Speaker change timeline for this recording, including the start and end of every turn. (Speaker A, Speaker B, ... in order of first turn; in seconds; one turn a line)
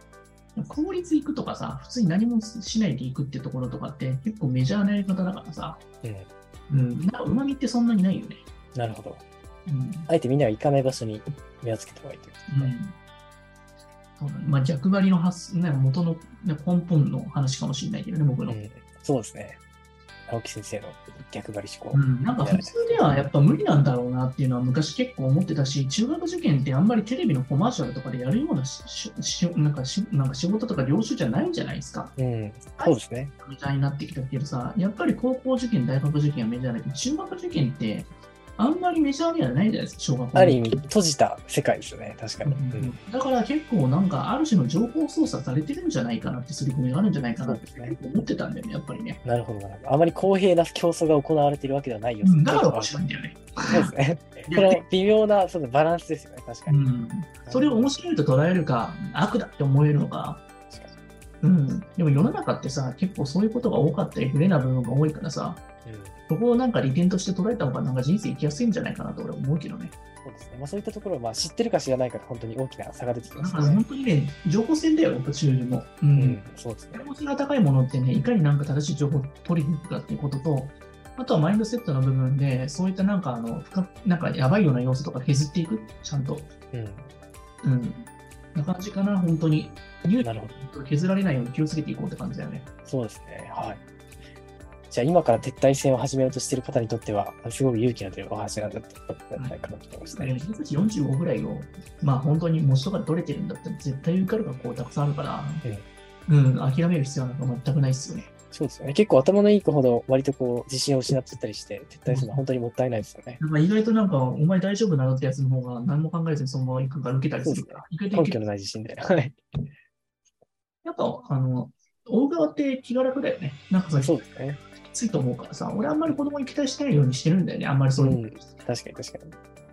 Speaker A: 0.6-5.8
Speaker B: 6.0-6.3
Speaker A: 6.7-8.4
Speaker B: 8.7-9.2
Speaker A: 9.7-10.1
Speaker B: 10.1-12.7
Speaker A: 12.5-12.9
Speaker A: 14.2-18.6
Speaker B: 18.5-19.6
Speaker B: 20.3-23.3
Speaker A: 21.9-32.1
Speaker B: 32.2-33.3
Speaker A: 32.8-40.6
Speaker B: 40.3-42.9
Speaker A: 42.4-49.2
Speaker B: 47.4-48.0
Speaker B: 49.2-53.0
Speaker A: 52.2-53.9
Speaker B: 53.7-56.9
Speaker A: 54.5-54.8
Speaker A: 56.7-60.5
Speaker B: 57.4-57.9
Speaker B: 60.7-60.9
Speaker A: 61.4-65.6
Speaker B: 65.8-66.2
Speaker A: 66.3-69.9
Speaker B: 70.2-73.8
Speaker A: 73.3-76.4
Speaker B: 76.1-77.1
Speaker A: 76.9-86.5
Speaker B: 86.7-87.1
Speaker A: 87.6-92.7
Speaker B: 90.2-90.6
Speaker B: 92.8-93.8
Speaker B: 94.9-100.5
Speaker A: 99.3-105.6
Speaker A: 106.3-108.3
Speaker B: 108.5-113.4
Speaker A: 112.1-112.4
Speaker A: 113.4-118.4
Speaker B: 117.4-119.4
Speaker A: 120.8-124.1
Speaker B: 124.0-124.6
Speaker A: 124.8-128.3
Speaker B: 128.0-129.3